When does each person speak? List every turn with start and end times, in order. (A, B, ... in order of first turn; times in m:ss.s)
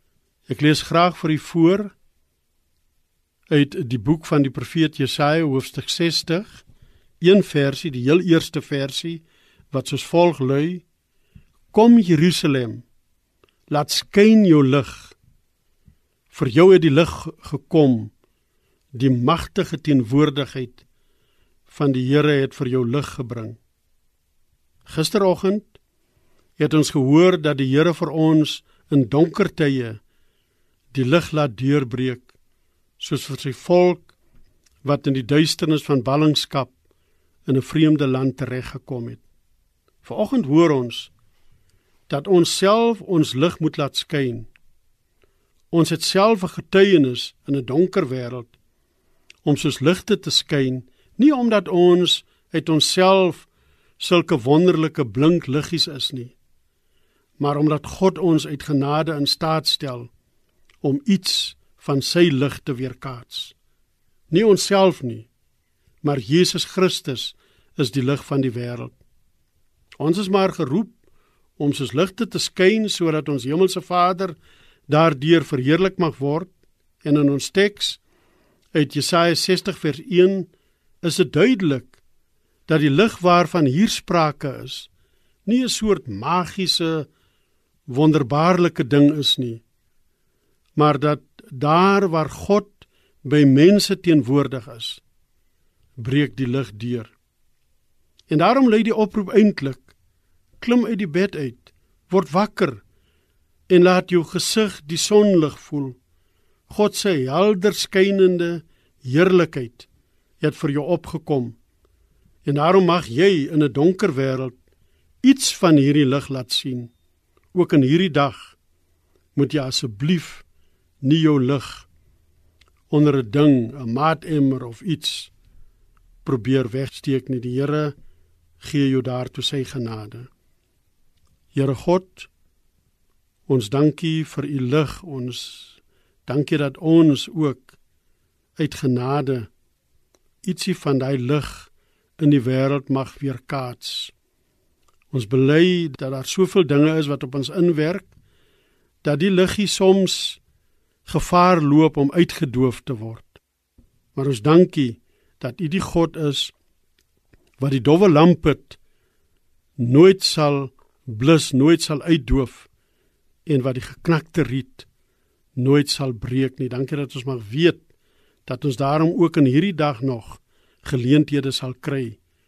0:00.5-0:01.9 A
0:03.5-0:06.6 A
0:07.2-0:10.8 A
0:11.7-0:12.8 A
0:13.7-0:15.2 A
0:16.3-0:18.1 A
0:18.9-0:20.8 A
0:21.7-0:23.6 A
0:24.8-0:25.8 A
0:26.6-0:30.0 A
0:30.9-0:32.3 A
0:33.0-0:34.1 A
0:34.8-0:36.7 A
0:37.4-0:39.2 A
0:40.0-0:41.1 A
0:42.1-0:44.5 A
0:45.7-0:48.5 A
0:49.4-0:53.5 A
0:54.0-0:56.4 A
0:57.4-1:00.1 A
1:00.8-1:03.5 A
1:04.3-1:05.3 A
1:06.0-1:09.0 A
1:10.0-1:10.9 A
1:11.6-1:14.4 A
1:14.9-1:16.5 A
1:17.0-1:18.0 A
1:18.7-1:20.5 A
1:21.0-1:22.0 A
1:22.7-1:24.9 A
1:25.4-1:27.1 A
1:27.9-1:29.6 A
1:30.8-1:35.0 A
1:36.0-1:37.1 A
1:38.3-1:39.9 A
1:40.6-1:42.8 A
1:43.7-1:46.0 A
1:46.7-1:49.9 A
1:50.4-1:51.6 A
1:52.4-1:54.5 A
1:55.2-1:56.9 A
1:57.5-1:58.5 A
1:59.3-2:00.4 A
2:01.0-2:01.9 A
2:02.9-2:05.3 A
2:06.2-2:07.9 A
2:08.6-2:10.3 A
2:11.5-2:12.3 A
2:13.5-2:17.8 A
2:18.6-2:19.5 A
2:20.4-2:24.1 A
2:25.1-2:28.1 A
2:29.0-2:30.4 A
2:31.0-2:33.4 A
2:34.1-2:36.5 A
2:37.6-2:38.8 A
2:39.8-2:42.7 A
2:43.4-2:44.9 A
2:45.6-2:47.8 A
2:48.4-2:52.2 A